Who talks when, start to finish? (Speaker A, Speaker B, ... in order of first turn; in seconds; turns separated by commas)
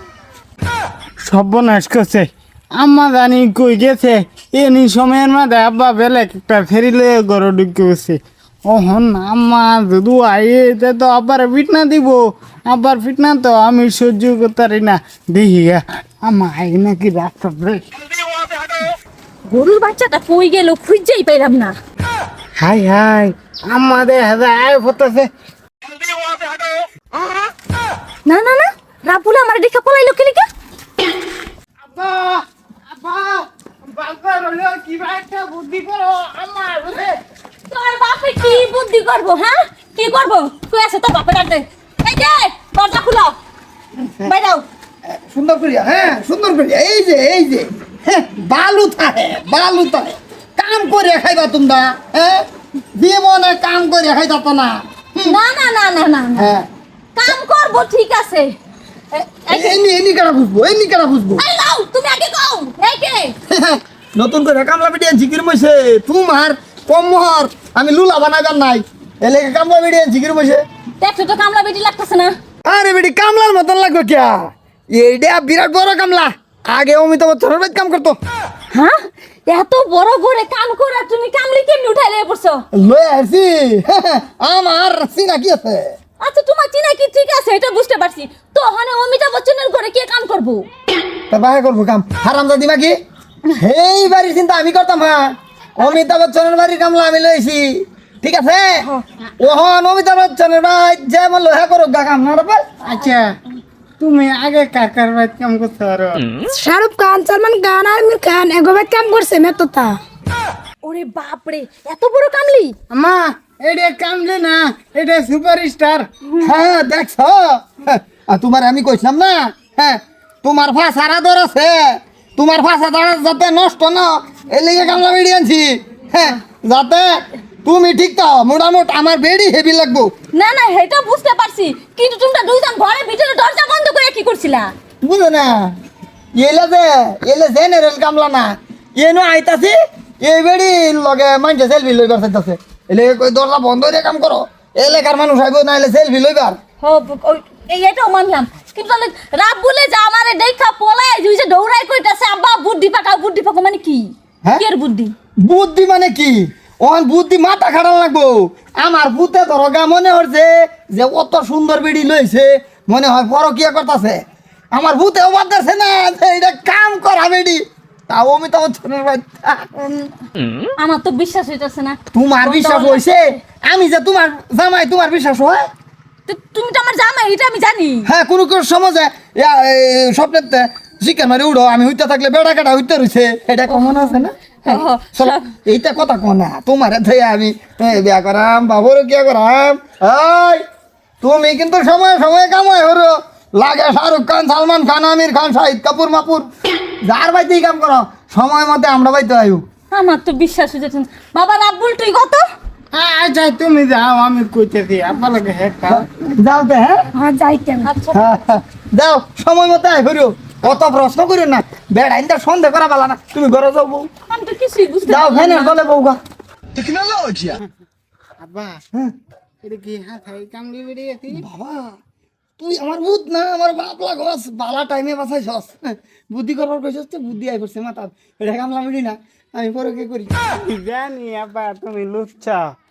Speaker A: 1.2-17.9, Speaker B: 19.5-21.7, Speaker A: 22.6-25.3, Speaker B: 28.2-30.5, Speaker A: 31.8-37.2, Speaker B: 37.7-43.3, Speaker B: 44.2-44.6, Speaker C: 45.1-55.4, Speaker B: 55.2-56.5, Speaker C: 56.4-56.6, Speaker B: 57.1-58.5, Speaker B: 59.1-59.8, Speaker C: 59.5-61.4, Speaker B: 61.4-63.3, Speaker C: 63.5-70.6, Speaker B: 71.0-72.3, Speaker C: 72.7-74.4, Speaker C: 74.9-78.2, Speaker B: 78.7-82.6, Speaker C: 82.7-85.9, Speaker B: 86.2-90.7, Speaker C: 91.3-92.9, Speaker C: 93.5-97.7, Speaker C: 98.2-98.9, Speaker C: 99.4-102.7, Speaker A: 102.8-103.3, Speaker A: 104.0-106.2, Speaker D: 106.5-110.0, Speaker B: 110.8-112.7, Speaker A: 112.9-116.1, Speaker C: 116.4-130.1, Speaker B: 130.3-134.7, Speaker C: 135.0-135.7, Speaker C: 136.4-146.6, Speaker B: 146.8-155.1, Speaker C: 155.4-164.2, Speaker C: 164.7-169.7, Speaker B: 169.8-170.2, Speaker B: 170.8-173.4, Speaker C: 172.1-175.7, Speaker B: 176.3-178.1, Speaker C: 178.1-190.6, Speaker B: 183.7-185.5, Speaker C: 191.2-196.5, Speaker C: 197.0-199.6, Speaker B: 199.9-202.4, Speaker A: 202.9-206.1, Speaker C: 205.9-207.1, Speaker D: 207.1-207.9, Speaker B: 207.8-208.2, Speaker C: 208.1-214.1, Speaker B: 214.3-215.8, Speaker C: 215.1-216.2, Speaker C: 216.8-217.6, Speaker A: 218.4-218.8, Speaker A: 219.6-221.4, Speaker C: 221.3-221.9, Speaker C: 222.6-230.3, Speaker A: 230.6-232.7